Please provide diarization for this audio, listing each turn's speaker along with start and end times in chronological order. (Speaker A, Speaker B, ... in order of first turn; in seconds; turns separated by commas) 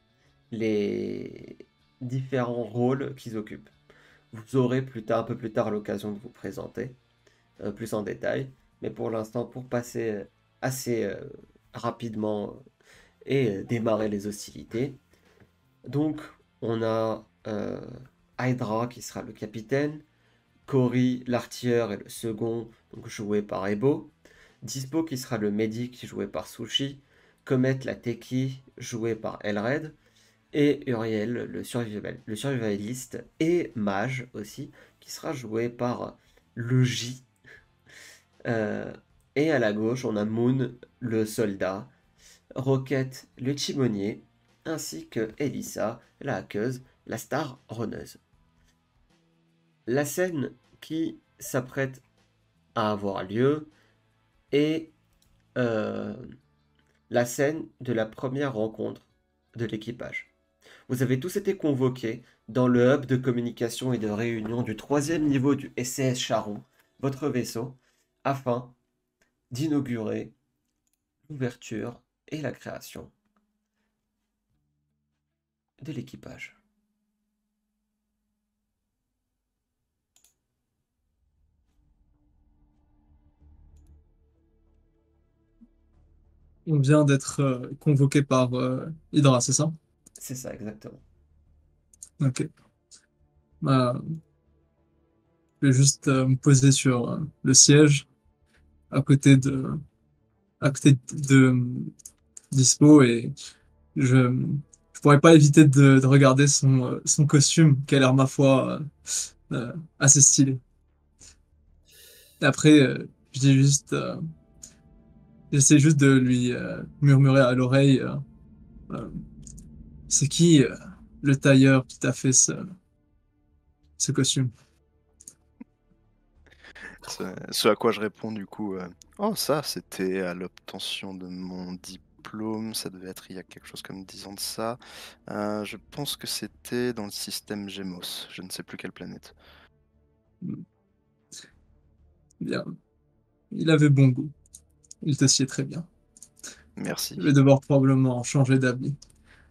Speaker A: 0.5-3.7, Speaker A: 4.3-7.0, Speaker A: 7.6-12.6, Speaker A: 13.2-15.0, Speaker A: 15.9-20.0, Speaker A: 20.7-30.0, Speaker A: 30.5-37.3, Speaker A: 38.5-41.9, Speaker A: 42.6-48.2, Speaker A: 49.9-52.0, Speaker A: 52.8-53.7, Speaker A: 54.5-54.9, Speaker A: 55.6-56.3, Speaker A: 57.1-60.3, Speaker A: 60.9-68.8, Speaker A: 69.5-70.3, Speaker A: 71.3-73.1, Speaker A: 75.8-76.6, Speaker B: 86.7-89.7, Speaker A: 90.2-91.0, Speaker B: 92.2-92.5, Speaker B: 93.6-94.2, Speaker B: 95.6-98.1, Speaker B: 98.9-99.8, Speaker B: 100.6-101.9, Speaker B: 102.5-103.3, Speaker B: 104.0-108.9, Speaker B: 109.5-110.6, Speaker B: 112.4-114.2, Speaker B: 115.5-118.2, Speaker B: 118.9-119.2, Speaker B: 120.1-122.7, Speaker B: 124.0-124.5, Speaker C: 127.0-139.3, Speaker B: 142.4-142.7, Speaker B: 143.5-144.3, Speaker B: 145.0-145.9, Speaker C: 146.8-147.3, Speaker B: 147.2-149.0